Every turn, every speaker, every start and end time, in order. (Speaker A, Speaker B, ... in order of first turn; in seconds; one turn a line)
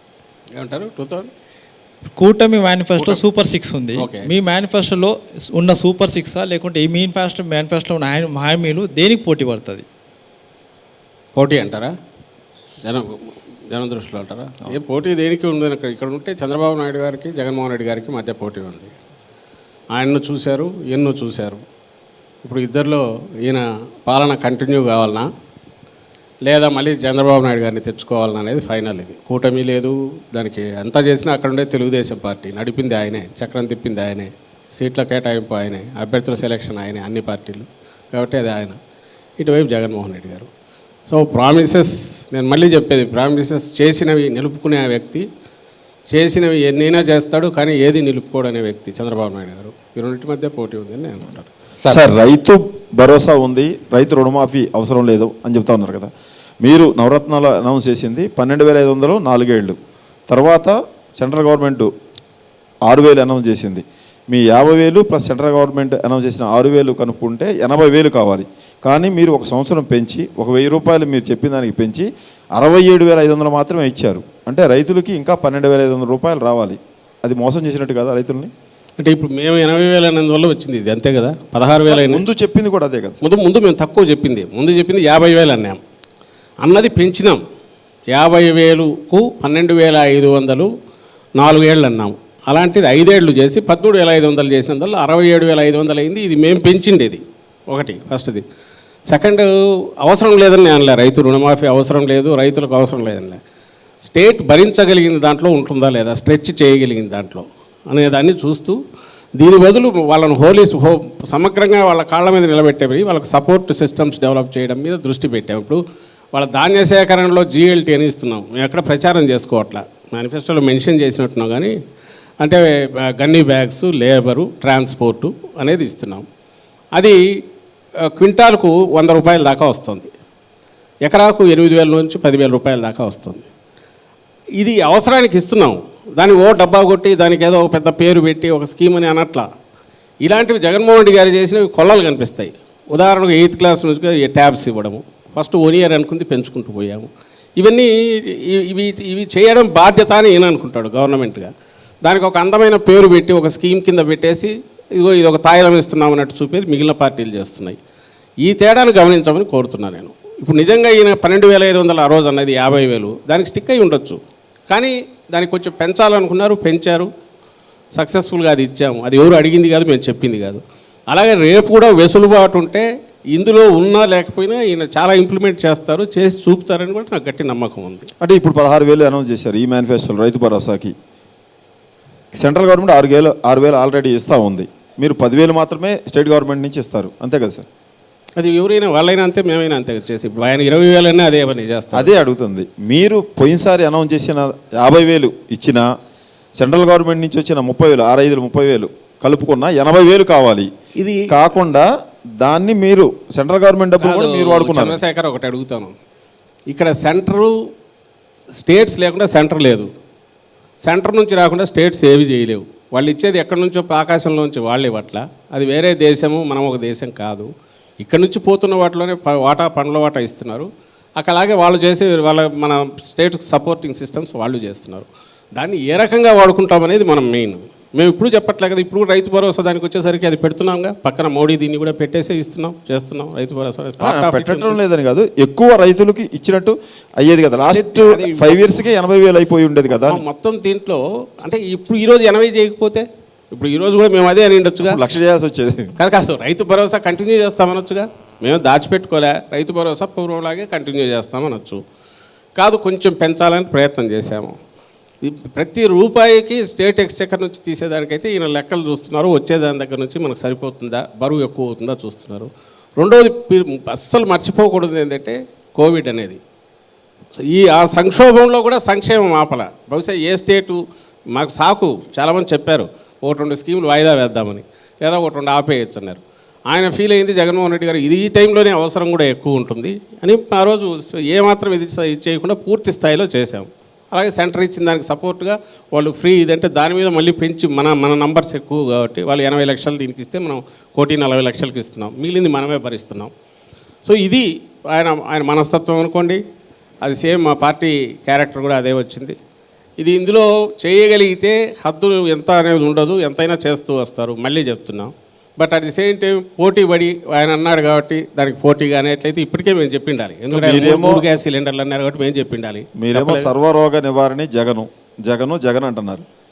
Speaker A: 0.5-1.3
Speaker B: 2.2-9.8
Speaker A: 4.0-4.3
Speaker A: 11.3-11.9
Speaker A: 12.8-18.9
Speaker A: 19.9-21.6
Speaker A: 22.4-25.2
Speaker A: 26.4-38.8
Speaker A: 39.4-40.5
Speaker A: 41.1-45.2
Speaker A: 46.1-51.5
Speaker C: 51.9-56.1
Speaker C: 56.6-59.8
Speaker C: 60.3-61.9
Speaker C: 62.9-78.5
Speaker A: 79.0-82.2
Speaker C: 81.9-83.2
Speaker A: 83.2-85.8
Speaker A: 86.6-87.4
Speaker A: 88.1-90.7
Speaker A: 91.4-98.4
Speaker A: 99.1-99.5
Speaker A: 100.0-103.4
Speaker A: 104.0-108.8
Speaker A: 109.4-115.8
Speaker A: 116.3-121.7
Speaker A: 122.4-126.2
Speaker A: 128.0-130.1
Speaker A: 131.0-133.4
Speaker A: 134.6-139.5
Speaker A: 140.2-151.5
Speaker A: 152.0-157.8
Speaker A: 158.4-167.1
Speaker A: 167.9-178.1
Speaker C: 178.2-180.9
Speaker C: 182.3-187.7
Speaker A: 188.4-192.1
Speaker C: 191.9-195.9
Speaker C: 196.6-200.7
Speaker A: 201.0-201.3
Speaker C: 201.3-201.9
Speaker C: 202.4-205.0
Speaker A: 204.0-205.9
Speaker A: 206.7-207.5
Speaker A: 208.6-209.9
Speaker A: 210.8-217.5
Speaker A: 218.0-234.8
Speaker C: 234.0-240.2
Speaker A: 237.7-238.8
Speaker A: 240.0-245.0
Speaker C: 244.8-245.9
Speaker A: 246.0-251.8
Speaker A: 252.6-254.6
Speaker A: 255.2-266.4
Speaker A: 267.4-293.3
Speaker A: 294.0-296.4
Speaker A: 297.0-299.4
Speaker A: 300.0-313.5
Speaker C: 310.5-311.2
Speaker C: 313.0-316.2